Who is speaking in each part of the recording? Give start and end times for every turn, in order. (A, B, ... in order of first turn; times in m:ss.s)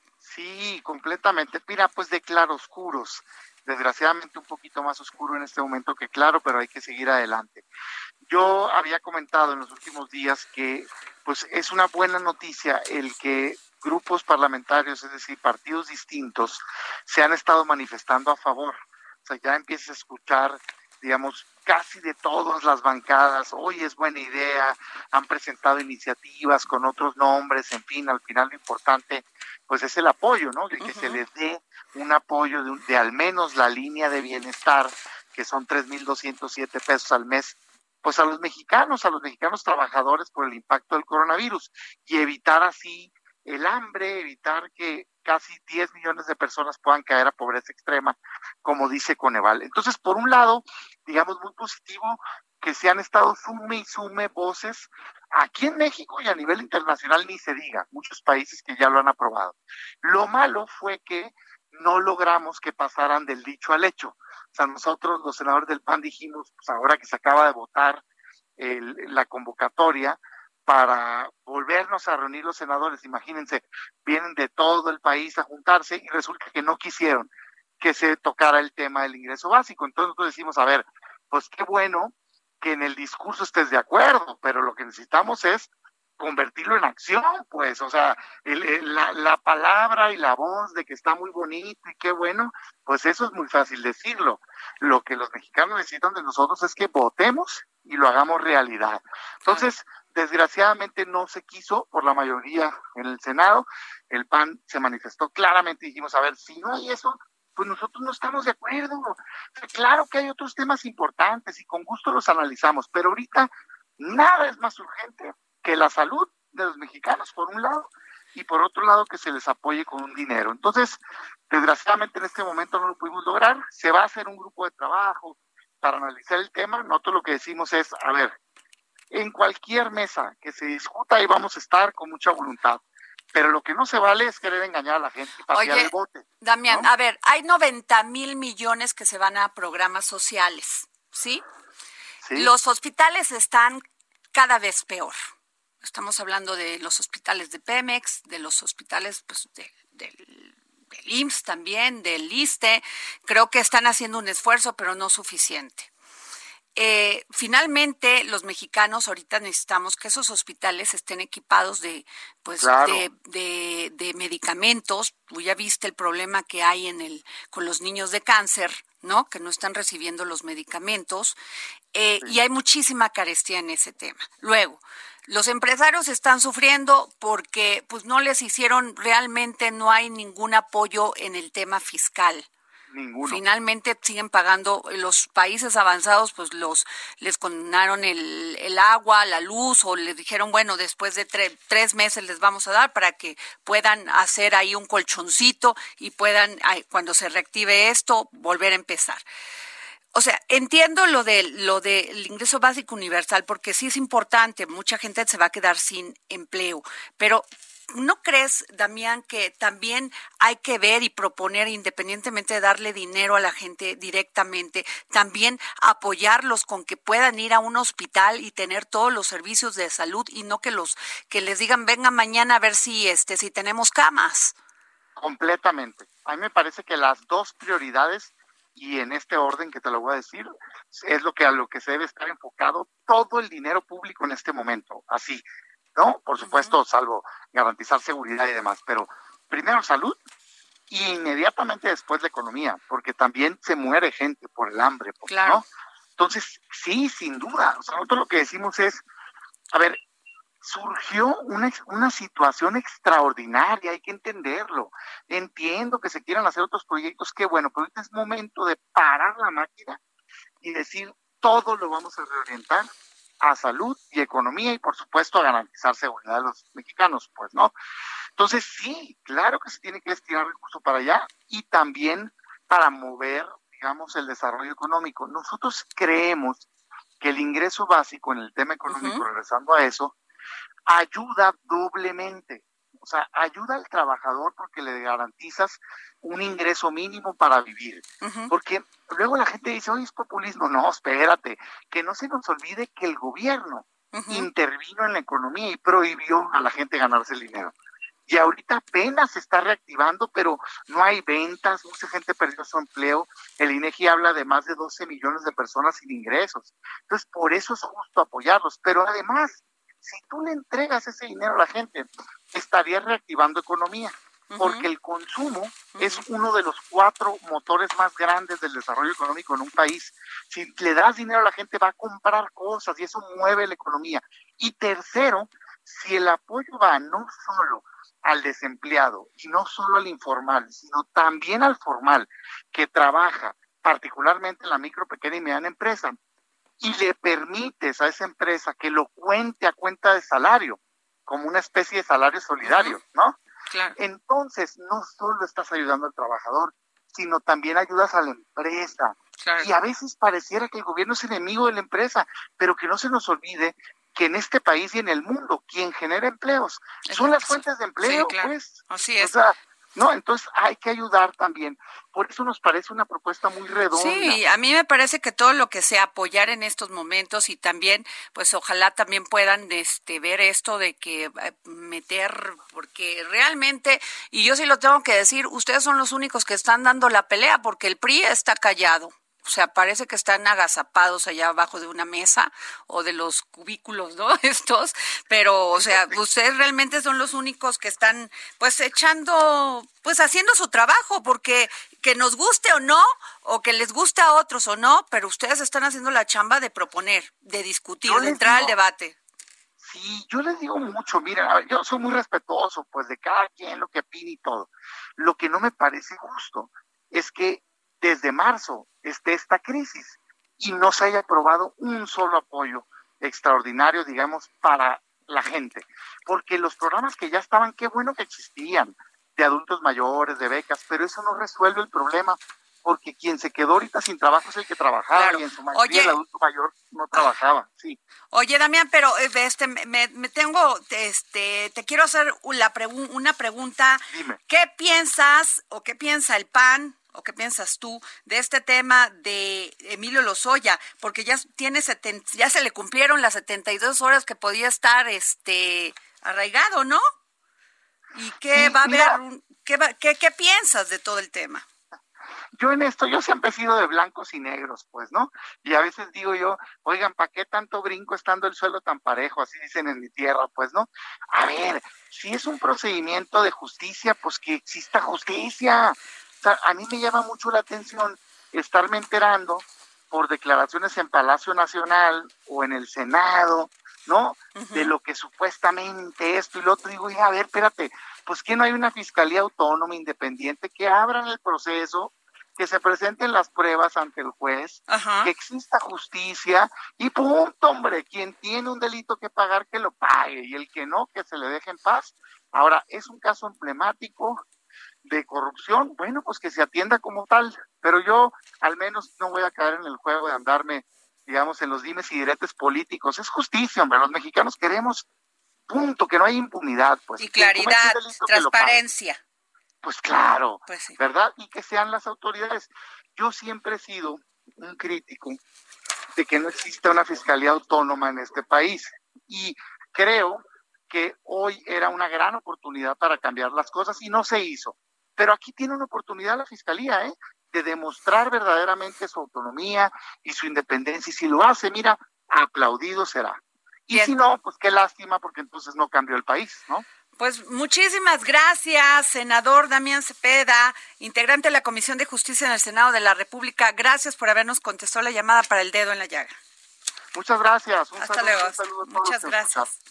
0:00.2-0:07.6 A
0:08.3-1:08.0 A
0:30.8-0:31.2 B
1:08.6-1:17.3 A
1:17.8-2:08.3 A
1:39.4-1:39.7 B
2:09.1-2:12.8 A
2:13.3-2:16.9 A
2:15.5-2:21.4 B
2:22.2-2:22.5 A
2:22.4-2:23.8 B
2:24.3-2:25.2 B
2:25.8-2:35.9 B
2:36.8-2:51.4 B
2:42.6-2:43.0 A
2:51.9-3:02.5 B
3:02.9-3:03.4 A
3:03.3-3:19.2 B
3:20.1-3:44.5 B
3:45.2-3:55.4 A
3:56.0-4:00.2 A
3:56.4-3:56.8 B
4:00.9-4:05.6 A
4:05.3-4:05.6 B
4:06.2-4:09.0 A
4:09.7-4:10.0 A
4:10.6-4:20.0 A
4:20.6-4:22.9 A
4:23.4-4:27.7 A
4:28.4-4:36.6 A
4:37.2-4:40.1 A
4:38.9-4:39.2 B
4:40.9-4:57.7 A
4:48.2-4:48.5 B
4:54.1-4:54.5 B
4:58.3-5:36.2 A
5:14.5-5:14.9 B
5:16.0-5:16.2 B
5:36.8-5:43.4 A
5:42.6-5:43.0 B
5:43.7-5:44.0 B
5:44.0-6:04.4 A
5:49.4-5:49.7 B
5:57.1-5:59.3 B
6:03.9-6:39.2 B
6:25.8-6:26.1 A
6:38.0-6:38.7 A
6:39.8-7:08.0 A
7:05.1-7:06.2 B
7:08.3-7:27.0 B
7:14.1-7:14.4 A
7:28.2-7:31.6 B
7:28.5-7:29.2 A
7:32.6-8:14.4 A
7:54.5-7:54.9 B
8:04.9-8:05.3 B
8:15.0-8:25.0 A
8:25.7-8:28.8 A
8:27.2-8:29.2 B
8:29.8-8:35.4 A
8:30.6-8:31.0 B
8:36.2-8:56.8 A
8:57.2-9:06.3 B
9:07.1-9:09.7 A
9:08.0-9:09.7 B